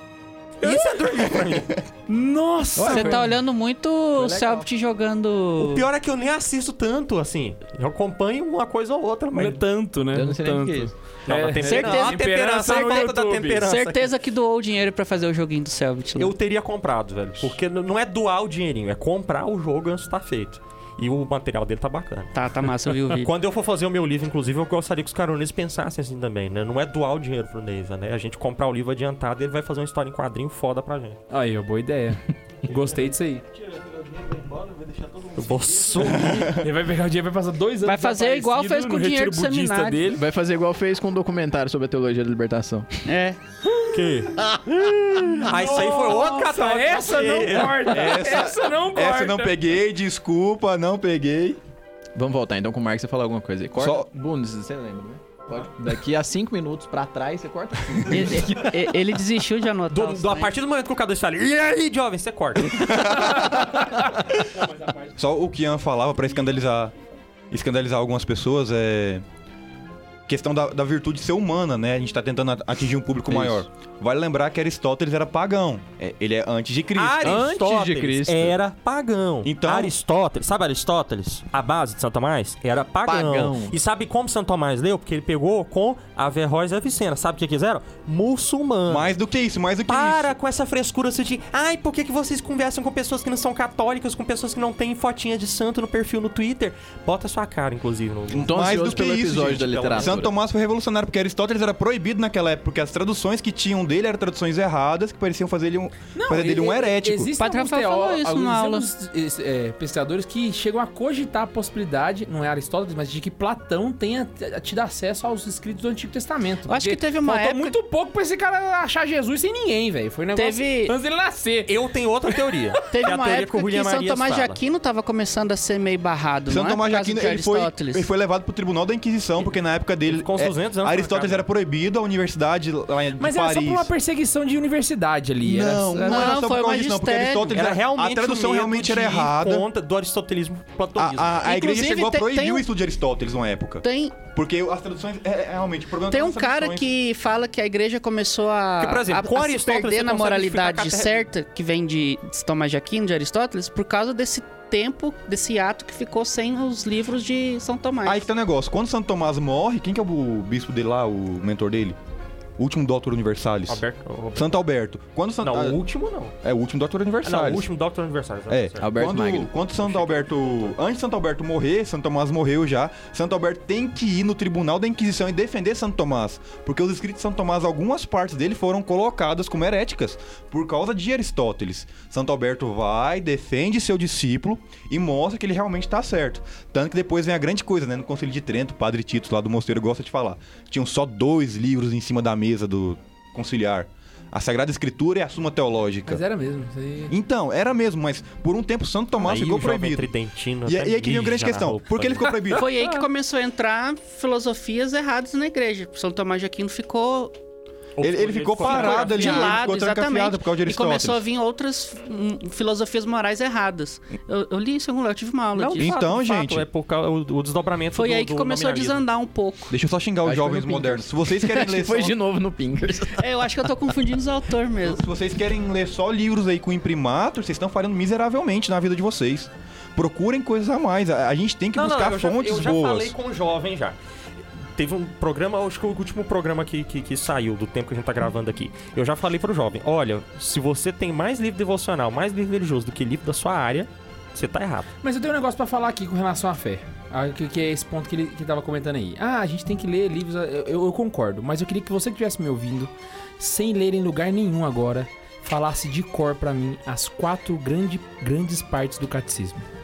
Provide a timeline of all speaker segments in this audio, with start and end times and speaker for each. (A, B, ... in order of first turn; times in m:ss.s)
0:00.6-0:01.8 A
0:00.6-0:01.2 B
0:02.1-0:03.4 B
0:02.8-0:03.3 C
0:02.9-0:05.9 D
0:04.2-0:04.7 C
0:05.6-0:09.6 A
0:09.3-0:13.6 B
0:10.1-0:10.9 C
0:11.3-0:14.1 A
0:11.6-0:16.3 D
0:16.2-0:31.2 A
0:22.3-0:23.3 D
0:31.3-0:33.4 B
0:33.7-0:36.7 A
0:36.0-0:36.6 E
0:36.2-0:40.2 B
0:37.8-0:40.1 D
0:40.1-0:43.0 C
0:43.1-0:43.4 D
0:43.9-0:48.2 A
0:45.4-0:49.6 B
0:47.9-0:51.6 E
0:52.2-0:58.9 C
0:53.8-0:54.1 E
0:58.0-1:00.5 D
0:59.9-1:03.2 A
1:02.7-1:03.8 E
1:04.4-1:05.1 B
1:05.2-1:06.9 E
1:07.5-1:09.2 E
1:10.3-1:17.5 E
1:13.3-1:13.6 C
1:17.0-1:29.1 A
1:17.2-1:18.6 C
1:19.4-1:20.0 E
1:23.1-1:23.8 C
1:28.9-1:30.4 E
1:29.9-1:40.3 A
1:38.3-1:47.4 E
1:38.3-1:40.3 C
1:46.2-2:01.8 B
1:47.4-1:48.9 D
1:56.7-1:57.8 D
2:00.3-2:01.0 D
2:01.7-2:04.6 A
2:02.9-2:08.1 D
2:06.5-2:13.9 E
2:10.0-2:11.5 A
2:13.2-2:16.0 B
2:15.4-2:19.7 E
2:15.9-2:17.5 D
2:17.5-2:21.5 A
2:21.0-2:26.9 E
2:21.4-2:22.7 D
2:23.8-2:24.2 D
2:26.1-2:38.3 D
2:28.8-2:31.3 A
2:38.0-2:42.0 E
2:42.6-2:43.8 E
2:43.7-2:44.6 A
2:44.4-2:45.8 E
2:45.4-2:46.3 A
2:46.4-2:47.7 E
2:47.2-2:49.2 A
2:48.5-3:16.2 E
2:48.8-2:49.5 C
2:49.8-2:50.7 A
3:16.1-3:17.1 B
3:17.1-3:20.1 E
3:19.2-3:22.3 A
3:20.6-3:22.7 E
3:22.5-3:27.4 D
3:28.0-3:29.7 A
3:28.0-3:31.2 E
3:28.6-3:35.9 D
3:35.6-3:39.0 A
3:35.8-3:36.7 E
3:37.9-3:39.8 D
3:39.7-3:42.2 E
3:40.2-3:43.3 C
3:43.1-3:45.0 D
3:44.8-3:53.2 E
3:51.8-3:54.0 A
3:54.8-4:04.9 A
4:05.0-4:19.6 B